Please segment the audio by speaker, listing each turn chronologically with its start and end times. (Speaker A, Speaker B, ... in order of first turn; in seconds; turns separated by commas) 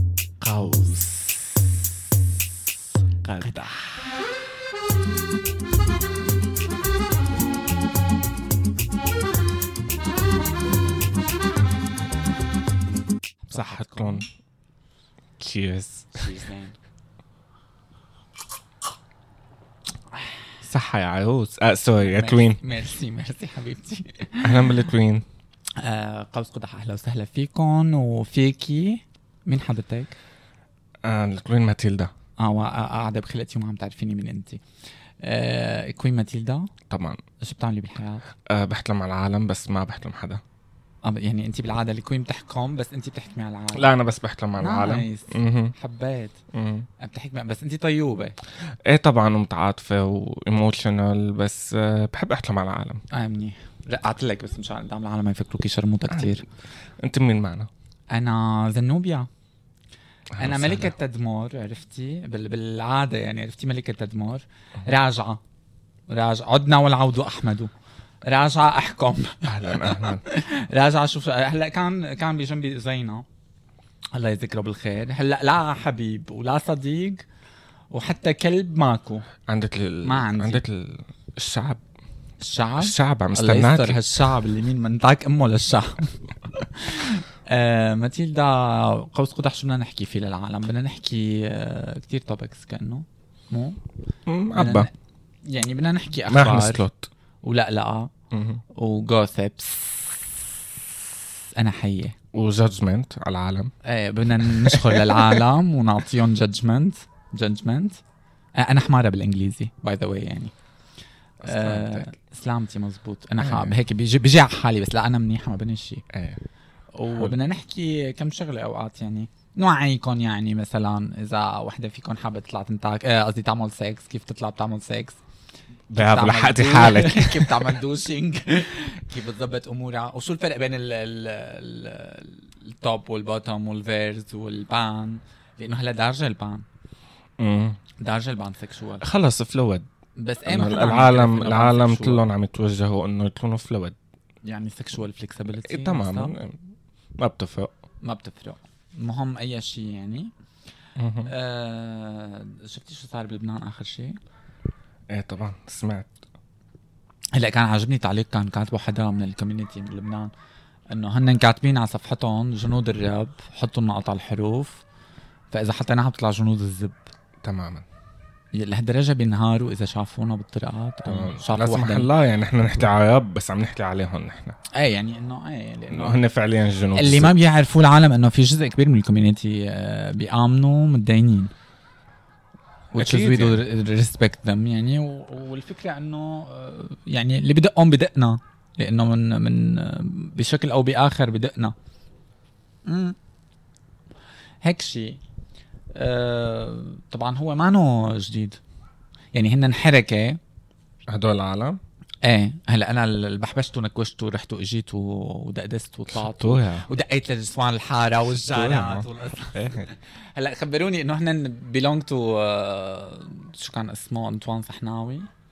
Speaker A: 0.4-1.6, Speaker B: 0.5-0.9, Speaker B: 3.3-3.8, Speaker A: 3.4-4.0, Speaker A: 13.4-14.3, Speaker B: 13.5-14.3, Speaker B: 15.4-16.3, Speaker A: 16.1-16.8, Speaker B: 20.6-22.6, Speaker A: 22.0-24.8, Speaker B: 24.4-25.3, Speaker A: 25.8-30.2, Speaker B: 31.0-32.1, Speaker A: 32.4-34.6, Speaker A: 35.2-36.7, Speaker B: 36.9-37.2, Speaker A: 37.4-38.2, Speaker B: 38.5-40.4, Speaker A: 41.0-43.9, Speaker B: 43.8-45.7, Speaker A: 44.6-46.4, Speaker B: 46.5-46.9, Speaker A: 47.0-48.4, Speaker B: 48.9-53.0, Speaker A: 53.1-56.5, Speaker B: 57.0-57.7, Speaker A: 58.1-59.3, Speaker B: 60.4-60.9, Speaker A: 60.4-65.4, Speaker A: 66.1-67.7, Speaker A: 68.2-73.3, Speaker B: 69.5-70.2, Speaker A: 74.1-77.2, Speaker A: 77.9-79.3, Speaker B: 79.5-81.8, Speaker A: 80.0-80.6, Speaker A: 82.4-93.8, Speaker B: 82.8-84.1, Speaker B: 94.3-94.9, Speaker A: 94.5-94.9, Speaker A: 95.4-96.8, Speaker B: 96.3-97.1, Speaker A: 97.4-98.1, Speaker B: 98.3-98.6, Speaker A: 98.7-100.6, Speaker A: 101.6-102.2, Speaker B: 102.3-103.7, Speaker A: 103.8-108.0, Speaker B: 104.4-105.4, Speaker A: 108.5-110.5, Speaker B: 111.4-112.1, Speaker A: 111.4-116.0, Speaker B: 113.4-113.7, Speaker B: 116.1-116.4, Speaker A: 117.0-125.2, Speaker B: 125.9-127.8, Speaker A: 125.9-136.7, Speaker B: 137.4-137.8, Speaker A: 138.0-139.1, Speaker B: 139.0-139.9, Speaker A: 140.2-142.2, Speaker B: 140.5-144.0, Speaker A: 144.4-146.3, Speaker B: 145.6-146.6, Speaker B: 147.2-147.7, Speaker A: 148.0-150.3, Speaker B: 151.0-151.3, Speaker A: 151.3-154.2, Speaker B: 155.1-156.2, Speaker A: 157.3-160.3, Speaker A: 160.9-164.8, Speaker A: 165.5-167.1, Speaker B: 167.4-167.9, Speaker A: 168.5-172.1, Speaker B: 171.1-174.6, Speaker A: 174.7-176.2, Speaker B: 175.9-177.3, Speaker A: 176.9-181.5, Speaker A: 182.9-191.7, Speaker B: 183.0-183.6, Speaker A: 192.9-193.2, Speaker A: 194.6-195.2, Speaker A: 195.9-198.6, Speaker A: 199.3-200.4, Speaker B: 201.1-201.8, Speaker A: 202.2-215.3, Speaker B: 206.1-206.9, Speaker B: 208.3-209.9